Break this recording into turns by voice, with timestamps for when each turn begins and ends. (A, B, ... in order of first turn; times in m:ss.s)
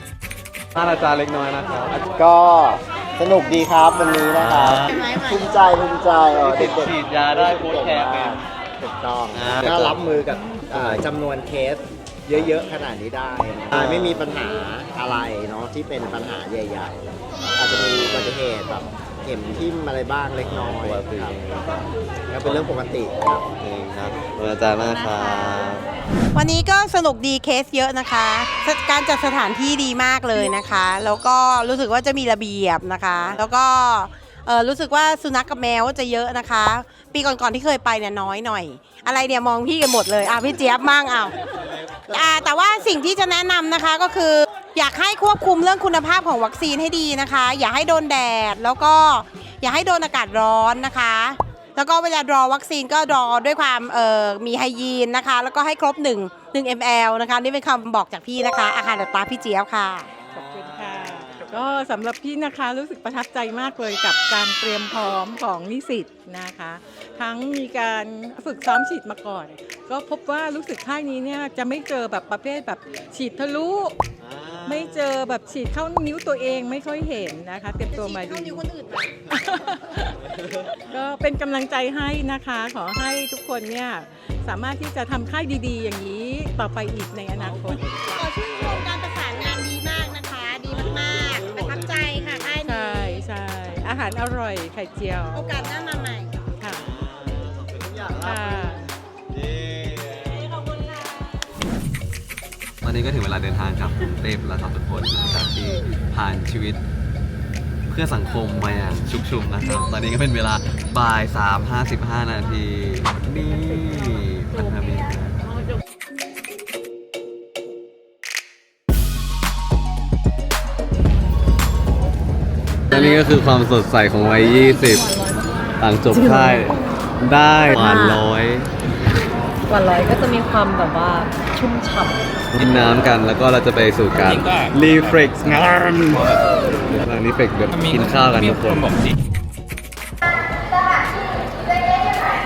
0:00.8-0:02.0 A
0:02.1-0:17.0 B
0:04.2-0:05.0 A
0:04.9-0:05.3 C
0:06.4-0:08.4 A
0:09.3-0:10.1 A
0:10.7-0:11.0 A
0:13.7-0:14.2 A
0:17.6-0:21.8 B
0:17.6-0:18.4 A
0:20.4-0:21.8 A
0:22.3-0:23.4 B
0:22.4-0:22.8 A
0:23.6-0:25.8 A
0:26.3-0:41.4 C
0:42.0-1:00.1 C
1:00.1-1:01.6 A
1:00.3-1:14.0 D
1:14.2-1:15.0 A
1:14.6-1:18.6 D
1:17.9-1:19.1 C
1:19.3-1:20.2 D
1:20.9-1:27.8 D
1:28.0-1:33.2 C
1:31.3-1:32.4 A
1:32.6-1:35.5 D
1:35.3-1:36.3 C
1:36.6-1:36.9 D
1:36.7-1:40.5 A
1:38.2-1:38.8 D
1:42.8-1:46.8 A
1:47.9-1:55.4 A
2:02.9-2:05.1 A
2:05.8-2:08.7 A
2:06.1-2:06.8 E
2:07.6-2:08.2 E
2:09.7-2:12.2 E
2:12.5-2:19.0 A